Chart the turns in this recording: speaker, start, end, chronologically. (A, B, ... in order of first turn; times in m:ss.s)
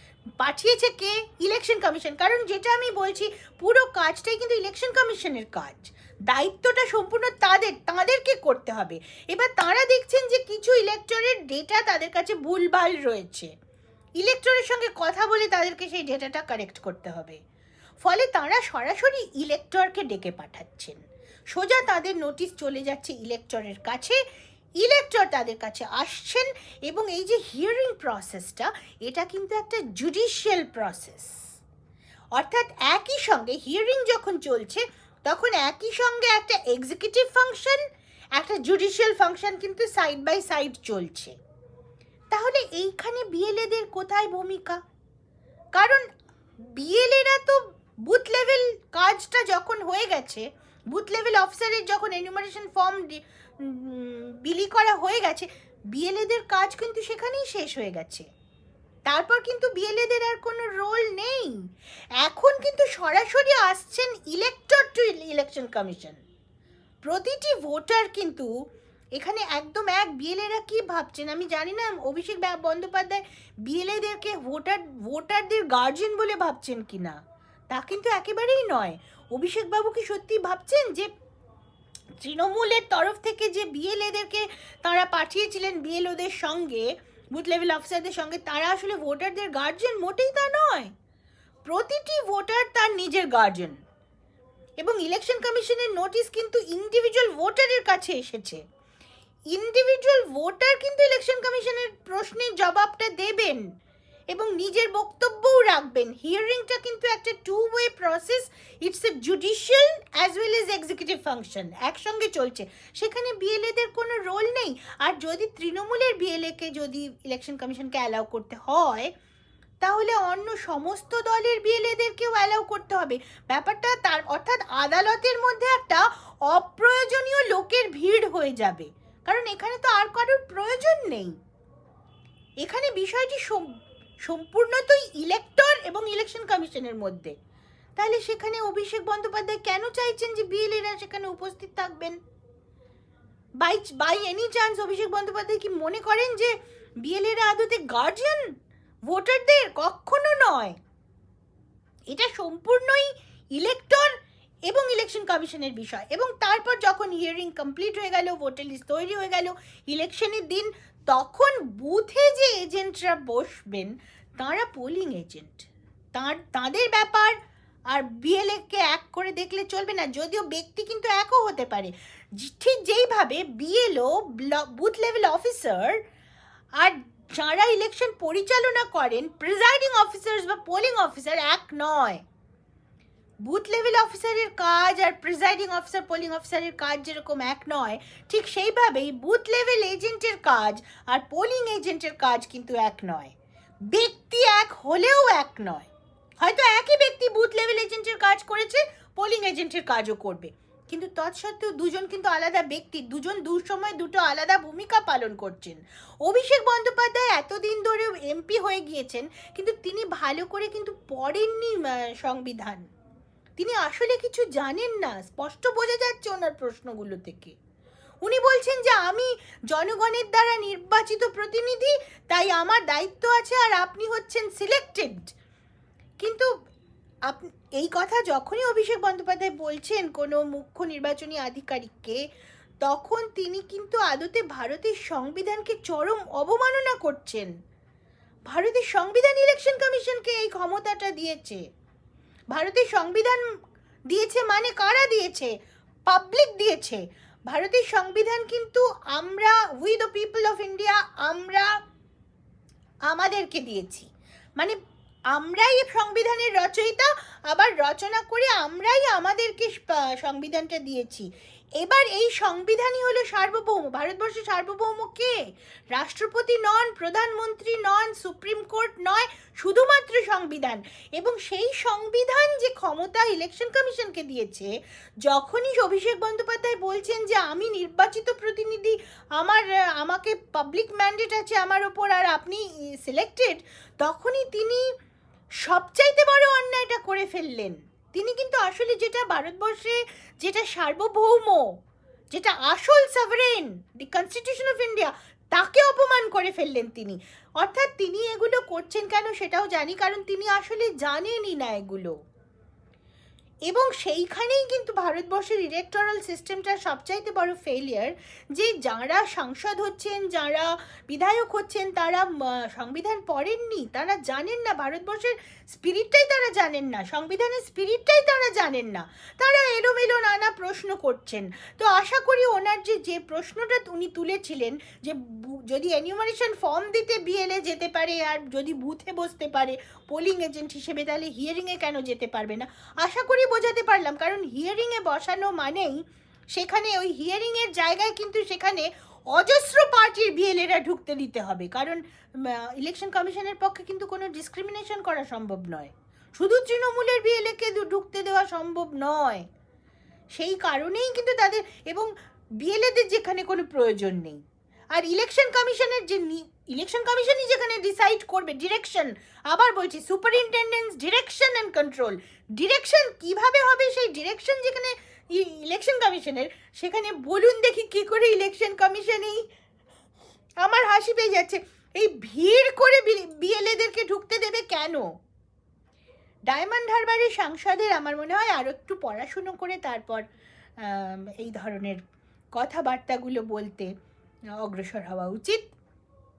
0:00.4-0:13.5 A
0:14.2-0:17.4 A
0:18.0-0:21.0 A
0:21.5-0:24.2 A
0:24.8-0:31.3 A
0:32.3-0:37.8 A
0:38.4-0:41.4 A
0:42.3-0:44.8 A
0:45.7-0:46.0 A
0:46.7-0:58.3 A
0:59.1-1:01.5 A
1:02.2-1:06.2 A
1:07.0-1:08.5 A
1:09.2-1:17.2 A
1:17.7-1:21.1 A
1:22.2-1:30.9 A
1:31.6-1:33.8 A
1:34.8-1:38.6 A
1:39.5-1:43.6 A
1:44.3-1:59.1 A
1:59.8-2:11.3 A
2:12.6-2:13.7 A
2:14.2-2:17.3 A
2:18.0-2:22.2 A
2:23.6-2:26.5 A
2:27.0-2:28.5 A
2:29.1-2:30.8 A
2:32.1-2:34.1 A
2:34.7-2:47.4 A
2:47.9-2:56.0 A
2:56.8-3:02.2 A
3:03.4-3:13.3 A
3:13.9-3:15.9 A
3:16.4-3:32.8 A
3:33.6-3:37.5 A
3:38.2-3:45.3 A
3:46.2-3:46.5 A
3:47.3-3:52.2 A
3:52.8-3:57.5 A
3:58.5-4:01.6 A
4:02.5-4:03.4 A
4:04.1-4:05.5 A
4:06.1-4:11.7 A
4:13.1-4:14.1 A
4:15.3-4:21.3 A
4:21.8-4:25.3 A
4:25.9-4:34.7 A
4:35.2-4:44.8 A
4:45.6-4:51.7 A
4:52.3-5:02.1 A
5:03.7-5:36.0 A
5:36.6-5:49.4 A
5:50.3-5:52.1 A
5:52.6-5:54.4 A
5:54.9-6:09.4 A
6:10.6-6:15.1 A
6:16.5-6:20.2 A
6:20.8-6:22.0 A
6:22.6-6:23.9 A
6:24.6-6:25.7 A